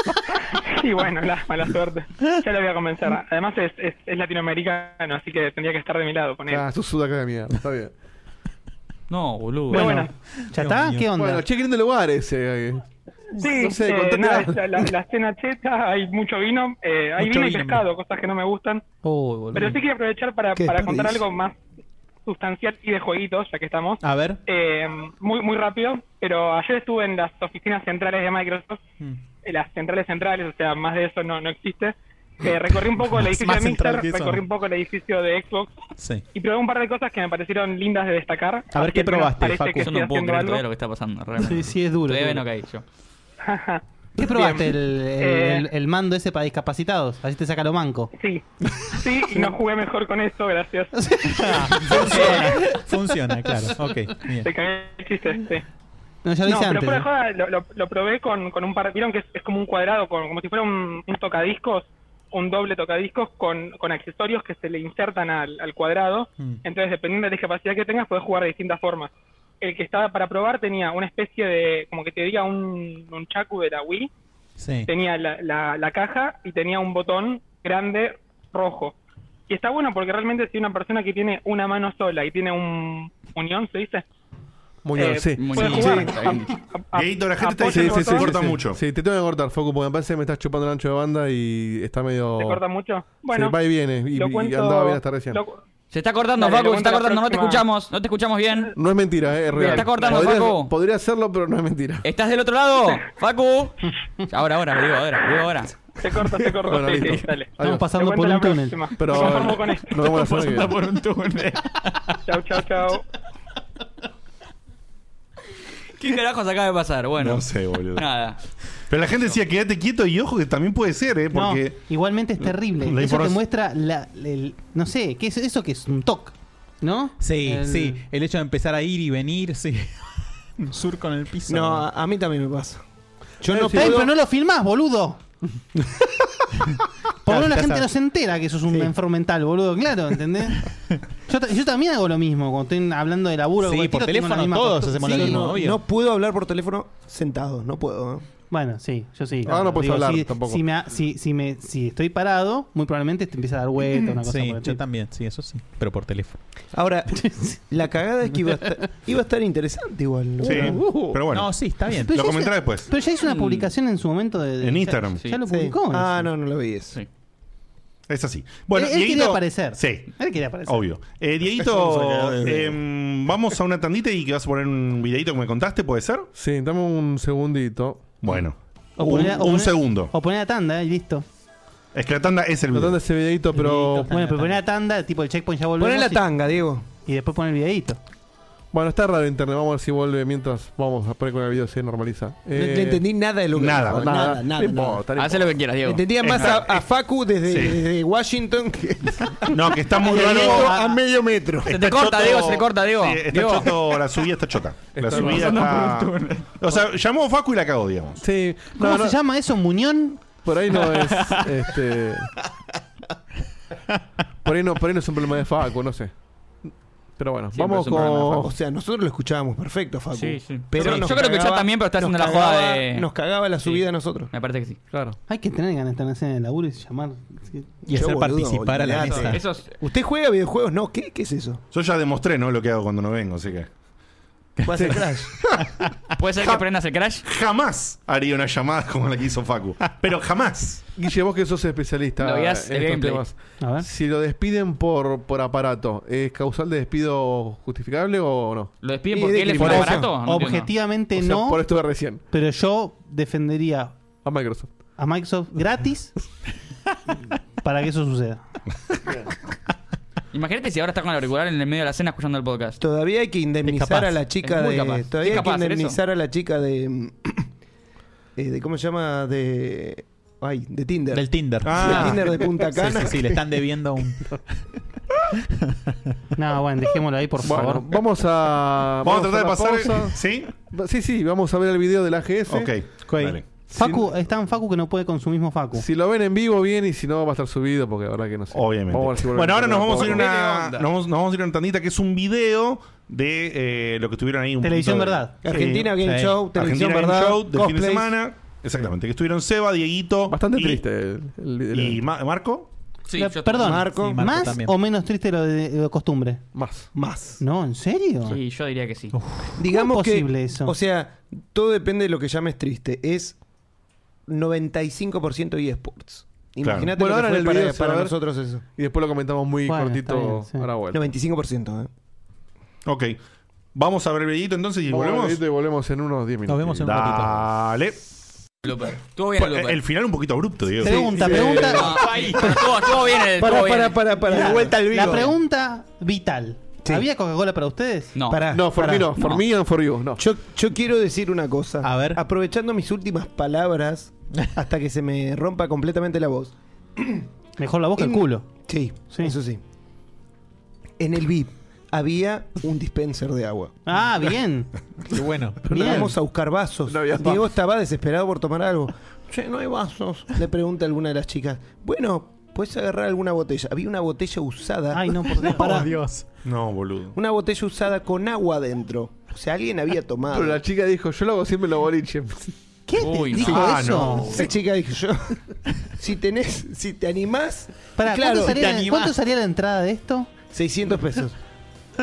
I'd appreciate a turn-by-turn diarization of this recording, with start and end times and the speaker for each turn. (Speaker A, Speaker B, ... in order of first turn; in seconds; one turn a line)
Speaker A: 0.5-6.7
Speaker B: 6.5-7.9
Speaker C: 9.1-10.0
Speaker D: 9.7-11.4
Speaker A: 9.7-10.1
Speaker E: 10.4-11.1
Speaker B: 11.2-12.8
Speaker A: 13.4-18.8
Speaker B: 13.5-14.8
Speaker E: 17.2-17.8
Speaker D: 19.0-19.8
Speaker A: 19.5-21.6
Speaker F: 20.6-21.2
Speaker A: 22.3-28.8
Speaker E: 24.0-24.4
Speaker A: 29.4-35.7
Speaker E: 33.1-34.4
Speaker E: 36.0-36.3
Speaker A: 36.3-40.6
Speaker E: 38.7-39.9
Speaker C: 39.8-42.8
Speaker D: 41.4-42.4
Speaker A: 43.5-45.7
Speaker D: 44.2-48.1
Speaker A: 48.1-51.0
Speaker D: 51.0-52.3
Speaker E: 51.3-54.5
Speaker A: 51.8-52.6
Speaker A: 54.4-55.6
Speaker D: 56.2-57.1
Speaker A: 56.5-74.1
Speaker E: 74.6-74.9
Speaker A: 74.9-79.0
Speaker A: 79.5-84.0
Speaker B: 84.8-86.4
Speaker A: 85.0-88.3
Speaker C: 85.4-86.5
Speaker G: 86.9-88.8
Speaker B: 87.6-92.6
Speaker A: 92.4-95.6
Speaker B: 93.2-95.4
Speaker C: 95.9-98.8
Speaker A: 96.4-97.7
Speaker B: 98.8-102.1
Speaker A: 99.5-100.3
Speaker C: 99.5-100.7
Speaker C: 102.0-105.7
Speaker A: 106.0-110.1
Speaker B: 106.6-107.9
Speaker D: 107.6-108.8
Speaker B: 109.0-110.8
Speaker C: 110.0-111.6
Speaker A: 112.3-113.0
Speaker C: 116.0-118.4
Speaker G: 117.2-118.1
Speaker G: 118.9-121.8
Speaker D: 121.3-128.0
Speaker G: 122.8-123.4
Speaker E: 127.2-131.9
Speaker F: 131.5-132.8
Speaker F: 133.4-134.1
Speaker B: 133.5-134.0
Speaker D: 133.7-135.2
Speaker D: 137.2-140.7
Speaker E: 137.3-137.9
Speaker D: 141.3-145.5
Speaker E: 143.6-145.8
Speaker F: 145.0-148.2
Speaker D: 148.5-154.8
Speaker B: 149.4-150.6
Speaker E: 154.2-156.4
Speaker F: 156.7-161.2
Speaker D: 157.2-157.6
Speaker G: 160.4-162.9
Speaker B: 160.7-161.1
Speaker E: 161.3-162.1
Speaker D: 162.0-166.3
Speaker C: 163.3-163.7
Speaker G: 164.6-165.2
Speaker F: 165.5-167.0
Speaker G: 168.1-170.1
Speaker D: 168.7-170.9
Speaker G: 170.7-176.3
Speaker F: 171.9-172.6
Speaker B: 176.3-178.2
Speaker G: 178.2-180.1
Speaker D: 179.0-181.2
Speaker G: 181.9-183.0
Speaker B: 182.7-184.1
Speaker E: 183.5-184.6
Speaker D: 184.1-186.3
Speaker F: 185.8-186.8
Speaker D: 187.1-188.0
Speaker B: 188.7-193.0
Speaker F: 192.5-195.1
Speaker G: 193.6-194.2
Speaker B: 193.9-195.7
Speaker C: 195.2-196.6
Speaker F: 195.8-201.7
Speaker G: 196.2-196.8
Speaker G: 197.5-197.8
Speaker G: 199.5-200.8
Speaker G: 201.7-208.2
Speaker C: 201.7-203.8
Speaker B: 204.9-205.6
Speaker C: 205.1-206.8
Speaker B: 208.2-209.2
Speaker D: 208.8-210.3
Speaker B: 210.4-212.3
Speaker C: 210.8-211.4
Speaker B: 214.4-216.1
Speaker B: 216.7-218.5
Speaker C: 217.5-218.4
Speaker F: 218.0-224.3
Speaker C: 220.1-223.1
Speaker C: 223.6-224.8
Speaker B: 224.9-225.2
Speaker D: 225.3-227.7
Speaker E: 227.9-229.4
Speaker F: 227.9-231.6
Speaker C: 228.9-229.8
Speaker G: 231.7-233.7
Speaker E: 234.6-234.9
Speaker F: 234.7-235.3
Speaker C: 236.2-237.2
Speaker G: 237.2-240.8
Speaker B: 241.0-248.7
Speaker C: 242.2-243.3
Speaker D: 243.6-243.9
Speaker C: 248.8-250.7
Speaker F: 249.1-250.1
Speaker B: 249.5-250.0
Speaker D: 249.7-251.6
Speaker B: 251.2-252.2
Speaker D: 252.2-254.0
Speaker B: 254.2-254.7
Speaker D: 255.0-256.1
Speaker D: 257.6-258.4
Speaker C: 260.3-262.8
Speaker F: 262.8-267.5
Speaker E: 263.6-264.3
Speaker C: 264.4-266.0
Speaker F: 268.4-273.4
Speaker E: 271.1-274.6
Speaker G: 271.6-272.4
Speaker D: 276.4-277.9
Speaker B: 277.4-280.2
Speaker G: 279.0-280.5
Speaker B: 280.7-282.7
Speaker G: 282.5-283.4
Speaker E: 283.1-283.4
Speaker B: 283.7-284.2
Speaker D: 283.7-285.9
Speaker B: 285.8-290.9
Speaker G: 288.5-296.0
Speaker D: 294.6-295.4
Speaker F: 295.4-298.1
Speaker E: 296.0-296.4
Speaker G: 296.5-300.8
Speaker B: 300.3-302.0
Speaker G: 301.7-302.7
Speaker C: 303.1-303.8
Speaker D: 303.2-306.4
Speaker F: 303.6-304.2
Speaker E: 303.9-304.8
Speaker B: 306.5-306.9
Speaker F: 306.9-307.4
Speaker D: 307.4-308.4
Speaker C: 308.3-309.1
Speaker E: 309.1-309.6
Speaker F: 309.6-313.4
Speaker D: 309.7-310.7
Speaker F: 314.3-318.6
Speaker G: 316.6-316.9
Speaker B: 317.0-318.1
Speaker B: 318.8-321.0
Speaker D: 319.7-320.7
Speaker F: 320.9-321.9
Speaker G: 322.9-323.2
Speaker G: 323.8-325.4
Speaker B: 324.9-327.0
Speaker E: 326.5-327.5
Speaker G: 326.8-328.0
Speaker C: 328.6-329.8
Speaker G: 329.4-331.2
Speaker D: 330.8-332.5
Speaker F: 330.9-331.9
Speaker B: 330.9-331.8
Speaker E: 331.6-332.8
Speaker C: 331.6-334.0
Speaker F: 333.4-335.3
Speaker E: 334.3-335.3
Speaker D: 334.3-338.1
Speaker C: 338.1-338.4
Speaker F: 338.3-339.2
Speaker B: 338.5-340.2
Speaker C: 339.2-339.4
Speaker F: 340.2-347.2
Speaker E: 341.8-342.2
Speaker D: 347.6-348.5
Speaker F: 348.0-349.6
Speaker D: 349.1-349.4
Speaker F: 351.0-353.8
Speaker D: 353.9-354.7
Speaker E: 355.1-355.6
Speaker B: 355.7-356.1
Speaker F: 355.7-365.9
Speaker D: 355.7-356.1
Speaker B: 356.9-357.5
Speaker D: 364.9-365.9
Speaker E: 365.4-366.3
Speaker G: 366.4-367.2
Speaker F: 367.1-370.6
Speaker B: 370.3-372.5
Speaker D: 372.9-374.4
Speaker C: 373.0-373.6
Speaker G: 373.3-374.4
Speaker F: 373.4-375.4
Speaker F: 376.0-378.7
Speaker D: 378.0-380.3
Speaker E: 378.3-379.1
Speaker F: 380.5-381.4